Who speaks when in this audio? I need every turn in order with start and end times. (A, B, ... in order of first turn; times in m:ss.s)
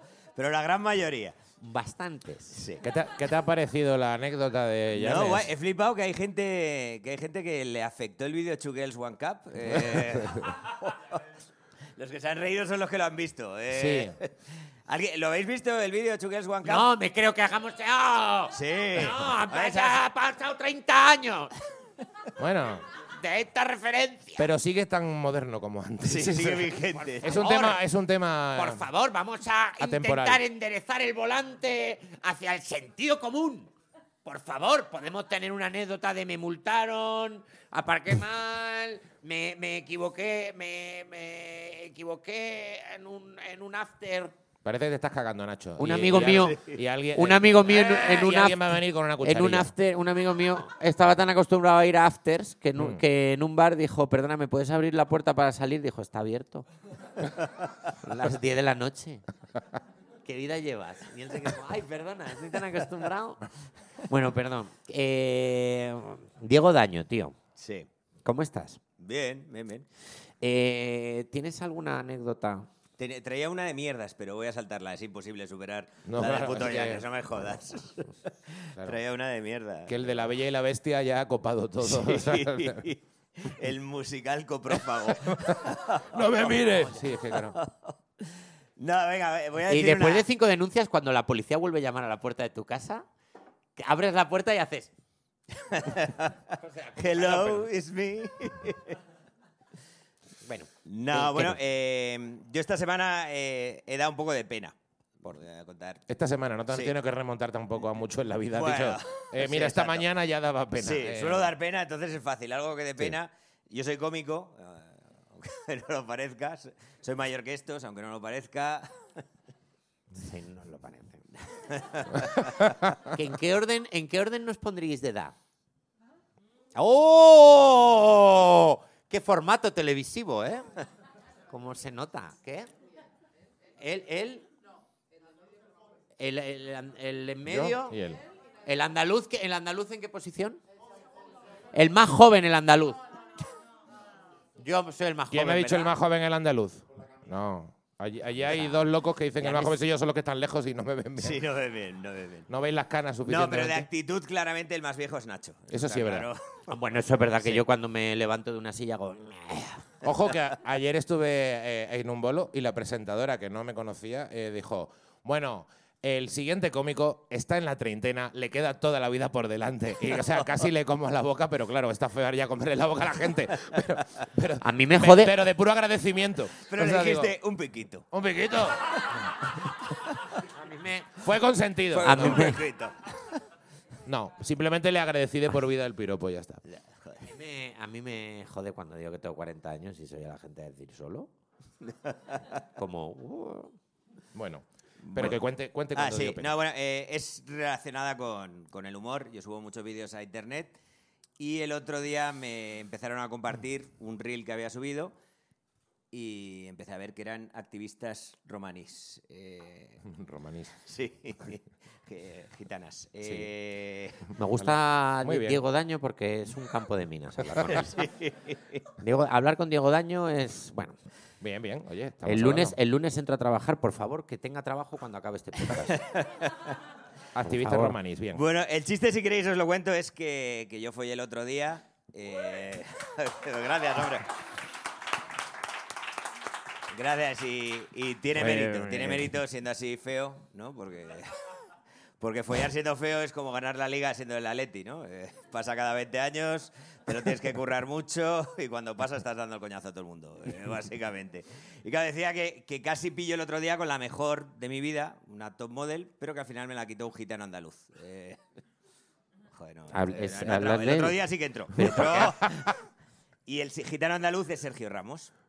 0:00.4-0:01.4 A
0:01.6-0:02.6 B
0:02.5-0:02.8 A
0:02.8-0:05.5 C
0:04.9-0:11.2 A
0:10.0-0:10.5 C
0:11.9-0:16.9 A
0:13.7-0:14.2 C
0:16.6-0:21.6 B
0:18.5-0:20.0 A
0:22.4-0:22.8 C
0:23.1-0:24.5 B
0:24.4-0:28.9 C
0:26.0-0:27.4 A
0:27.0-0:27.8 B
0:28.5-0:33.7 B
0:29.8-0:30.4 C
0:34.2-0:44.3 B
0:44.6-0:49.7 C
0:45.8-0:46.6 B
0:46.1-0:46.8 A
0:47.1-0:56.6 B
0:58.0-0:59.2 B
1:00.2-1:03.5 B
1:04.0-1:07.4 B
1:07.6-1:07.9 A
1:08.2-1:08.8 B
1:09.0-1:09.8 A
1:10.4-1:12.7 B
1:13.0-1:20.0 A
1:16.0-1:17.1 C
1:19.9-1:22.8 C
1:21.8-1:30.3 A
1:25.1-1:27.6 C
1:29.7-1:33.0 B
1:33.8-1:34.9 B
1:35.6-1:39.0 A
1:36.6-1:37.7 B
1:40.4-1:41.6 B
1:40.8-1:46.0 A
1:46.1-1:51.5 C
1:46.7-1:46.9 A
1:48.5-1:50.1 A
1:50.8-1:59.2 A
2:00.1-2:01.6 B
2:01.7-2:02.5 A
2:02.6-2:02.9 C
2:03.0-2:05.3 B
2:06.7-2:10.7 B
2:11.5-2:12.7 B
2:13.8-2:14.5 B
2:16.2-2:18.0 B
2:17.4-2:18.2 C
2:18.6-2:20.6 B
2:21.7-2:23.0 B
2:24.6-2:25.9 B
2:25.3-2:31.4 C
2:28.4-2:28.8 B
2:29.4-2:29.8 B
2:31.2-2:32.5 A
2:32.5-2:33.9 C
2:33.2-2:36.8 A
2:35.7-2:36.3 C
2:36.7-2:39.9 B
2:40.0-2:57.3 C
2:54.6-2:55.3 B
2:56.6-2:58.0 A
2:58.1-2:59.0 C
2:58.9-2:59.2 A
2:59.9-3:00.3 A
3:00.4-3:01.2 B
3:01.2-3:02.5 C
3:01.9-3:03.4 A
3:02.0-3:02.6 B
3:04.0-3:06.6 C
3:06.7-3:07.2 A
3:07.2-3:11.3 B
3:11.8-3:12.6 A
3:12.8-3:13.8 B
3:14.3-3:16.5 C
3:15.0-3:15.4 A
3:15.9-3:20.8 A
3:21.4-3:25.1 A
3:26.1-3:30.0 A
3:30.0-3:30.8 C
3:30.8-3:34.3 A
3:34.4-3:37.9 B
3:34.5-3:35.6 C
3:37.4-3:37.9 C
3:37.6-3:38.8 A
3:39.0-3:41.0 B
3:41.4-3:42.8 C
3:42.2-3:46.0 B
3:45.9-3:46.8 A
3:47.3-3:48.4 C
3:47.4-3:48.0 B
3:48.3-3:54.3 A
3:56.9-4:01.5 A
3:58.3-3:59.3 C
4:02.2-4:18.4 A
4:19.5-4:22.8 A
4:19.9-4:21.2 B
4:21.7-4:22.3 B
4:21.8-4:22.5 C
4:23.4-4:25.3 A